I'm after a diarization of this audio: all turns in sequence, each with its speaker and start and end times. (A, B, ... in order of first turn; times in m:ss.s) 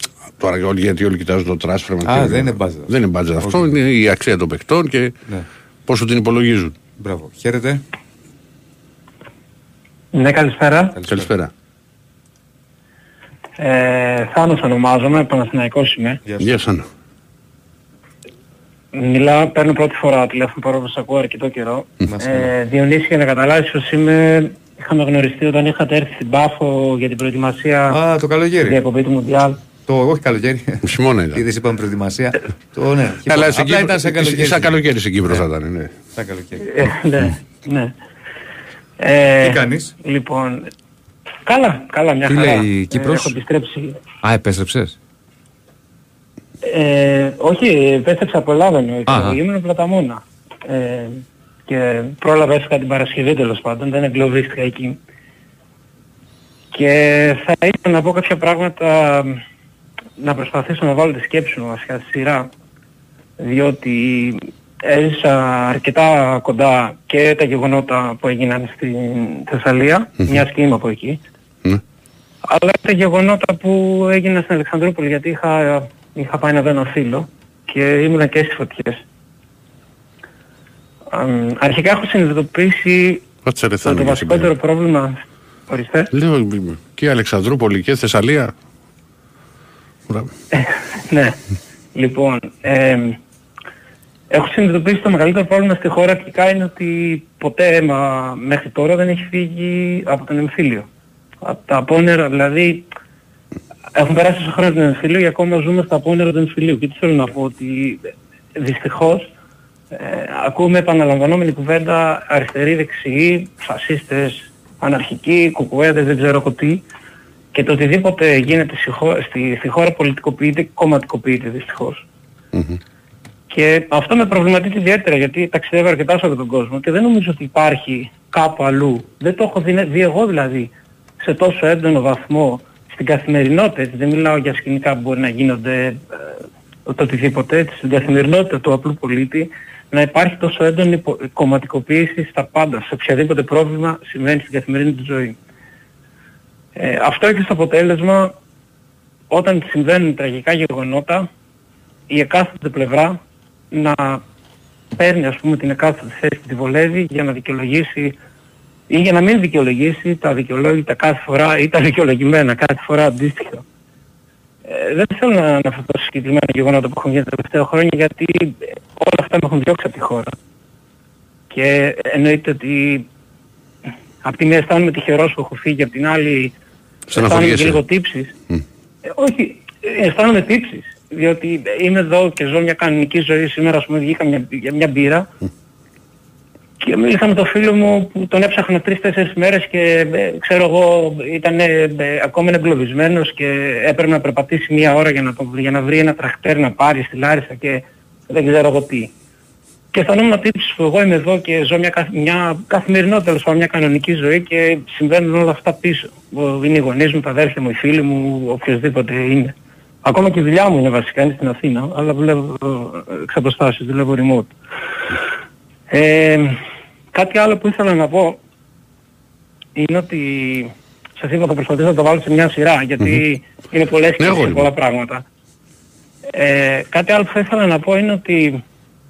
0:00.4-0:05.2 A
0:02.0-0:03.7 B
0:05.8-0:06.8 A
0:07.0-0:07.8 B
0:10.1-0:11.0 C
0:10.9-0:11.3 B
0:11.1-0:11.5 A
0:13.6-0:16.2 C
0:16.2-0:16.6 B
0:16.4-0:16.8 A
0:18.9-0:28.0 C
0:22.0-0:22.5 B
0:27.9-0:28.8 B
0:28.6-0:29.6 C
0:29.8-0:35.4 B
0:30.8-0:31.4 A
0:33.3-0:35.9 A
0:36.1-0:36.7 B
0:36.6-0:37.9 C
0:39.0-0:40.7 C
0:39.4-0:39.9 B
0:41.4-0:44.0 C
0:42.3-0:43.3 B
0:44.2-0:45.0 B
0:46.6-0:55.0 C
0:49.1-0:49.4 B
0:56.7-0:59.4 C
1:00.2-1:02.5 C
1:03.4-1:11.2 C
1:12.4-1:19.0 C
1:21.1-1:23.3 C
1:23.4-1:24.5 A
1:23.8-1:26.1 C
1:26.1-1:28.5 A
1:30.5-1:31.4 C
1:31.9-1:33.2 C
1:34.3-1:40.9 C
1:41.4-1:42.8 C
1:43.9-1:49.3 C
1:49.9-1:56.8 C
1:57.5-2:02.0 C
2:02.5-2:02.8 A
2:03.5-2:25.4 C
2:26.8-2:28.3 C
2:29.3-2:31.3 C
2:32.1-2:33.2 C
2:33.7-2:34.2 C
2:34.9-2:38.2 C
2:38.9-2:43.6 C
2:44.7-2:50.3 C
2:51.5-2:53.1 C
2:54.2-2:56.5 C
2:57.1-2:57.8 A
2:57.1-2:58.3 C
2:59.1-3:05.3 C
3:06.8-3:19.1 C
3:19.9-3:34.5 C
3:35.9-3:36.6 C
3:37.1-3:38.4 C
3:39.8-3:45.2 C
3:44.2-3:44.7 A
3:46.3-3:48.6 C